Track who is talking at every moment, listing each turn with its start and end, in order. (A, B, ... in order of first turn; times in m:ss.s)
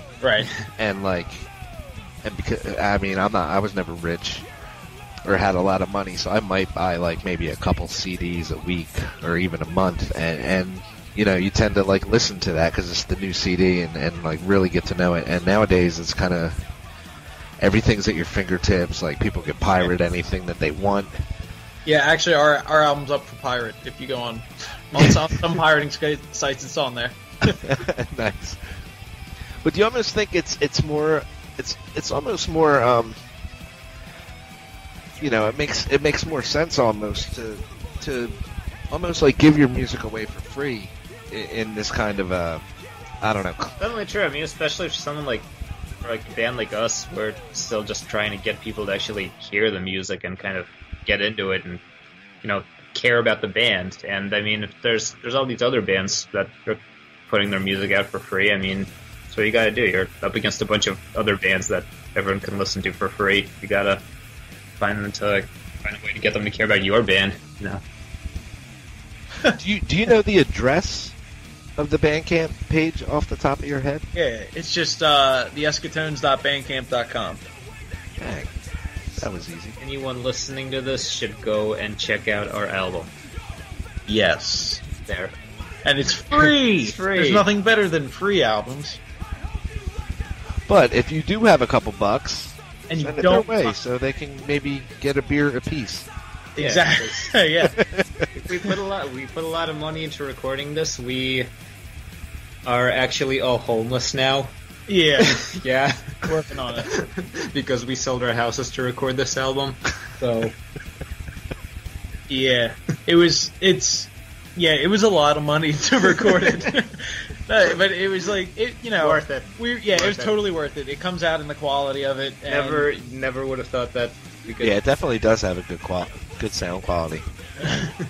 0:00.2-0:00.5 A
0:00.8-0:01.5 B
0:02.2-0:04.5 B
0:05.2-0:16.6 B
0:17.6-0:21.2 B
0:21.8-0:27.6 A
0:27.5-0:28.6 B
0:29.6-0:33.2 B
0:35.2-0:38.4 B
0:38.9-0:42.6 B
0:43.2-0:43.7 B
0:43.8-0:45.5 C
0:46.0-0:51.8 C
0:52.4-1:04.0 C
1:04.8-1:07.8 C
1:09.5-1:11.2 B
1:11.8-1:14.1 B
1:14.1-1:17.4 A
1:18.2-1:18.5 B
1:19.2-1:19.8 B
1:19.8-1:23.1 C
1:24.1-1:24.8 A
1:25.0-1:25.4 C
1:25.8-1:29.0 A
1:26.3-1:27.5 C
1:30.7-1:36.1 B
1:32.9-1:33.7 A
1:36.6-1:37.8 A
1:36.6-1:37.3 C
1:37.8-1:38.0 B
1:38.3-1:41.5 C
1:42.7-1:44.5 C
1:44.9-1:45.5 A
1:45.2-1:46.3 C
1:46.2-1:47.0 A
1:46.9-1:50.5 C
1:52.3-2:02.9 A
1:59.0-2:00.4 C
2:02.5-2:04.8 C
2:04.6-2:07.3 B